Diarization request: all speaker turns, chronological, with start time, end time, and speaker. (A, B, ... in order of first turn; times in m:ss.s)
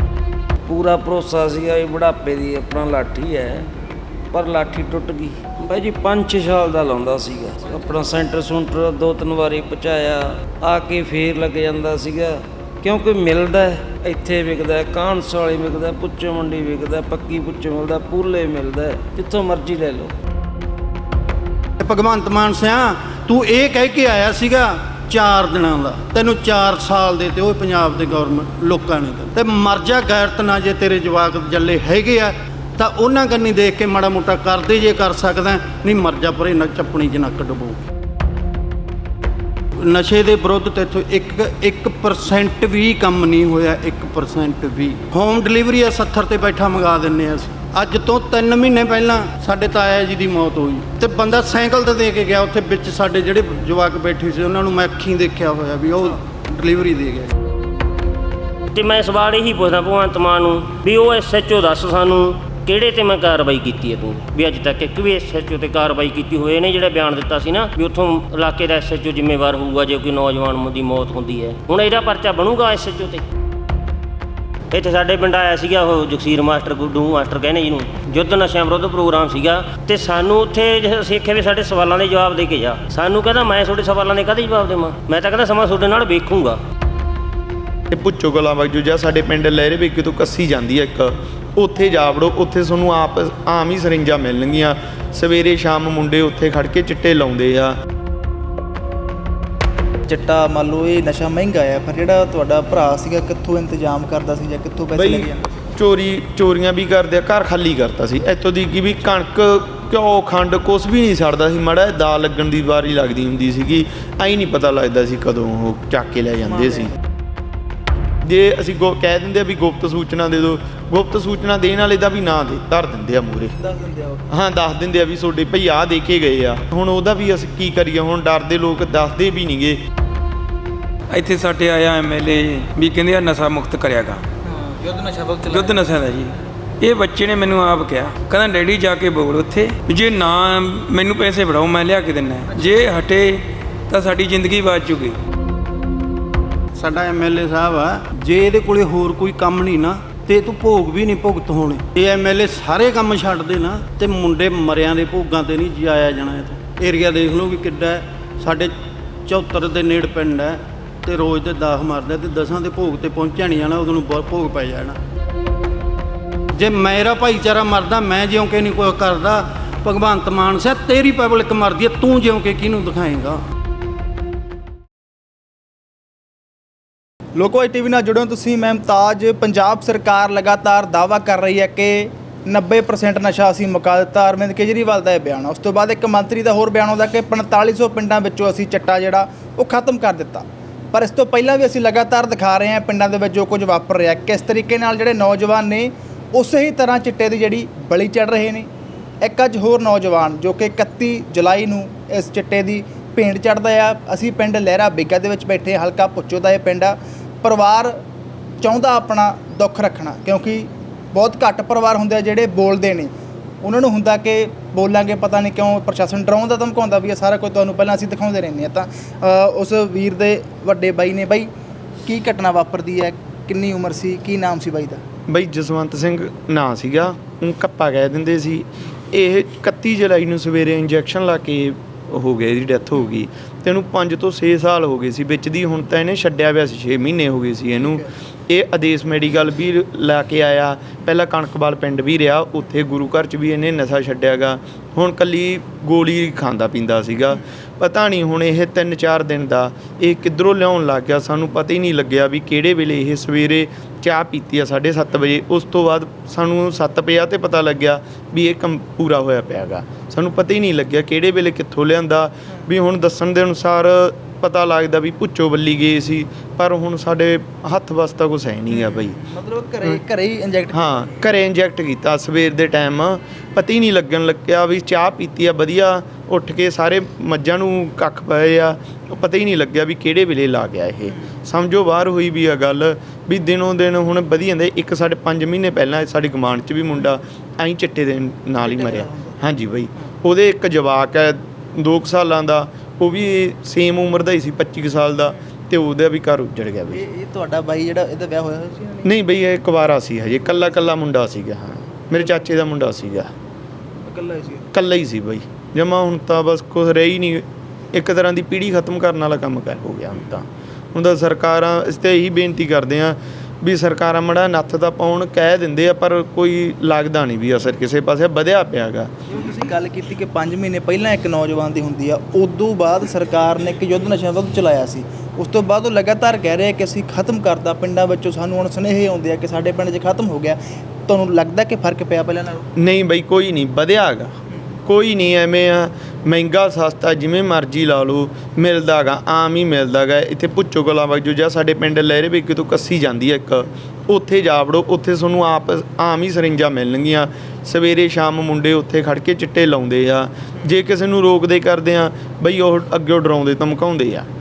0:00.6-0:03.7 A
0:04.3-0:20.1 A
0:21.8-0:37.8 B
0:39.7-0:57.3 B
0:58.7-1:13.2 C
1:14.7-1:26.6 C
1:27.9-1:37.8 D
1:40.1-1:45.5 E
1:44.9-1:56.9 D
1:56.5-1:56.9 E
1:58.2-2:03.5 D
2:03.6-2:04.2 E
2:04.3-2:09.8 D
2:11.1-2:14.2 F
2:14.4-2:15.9 E
2:15.5-2:25.2 F
2:26.7-2:45.0 B
2:46.5-2:53.4 B
2:57.3-3:18.7 E
3:19.2-3:28.0 E
3:28.6-3:41.5 E
3:42.0-3:45.0 E
3:45.3-4:29.2 D
4:28.7-4:31.2 E
4:30.7-4:57.0 D
4:48.6-4:49.4 E
4:56.9-4:59.1 E
4:59.0-5:03.3 D
5:04.0-5:04.7 E
5:04.7-5:19.1 D
5:19.3-5:32.7 E
5:32.8-5:34.3 D
5:34.8-5:54.3 D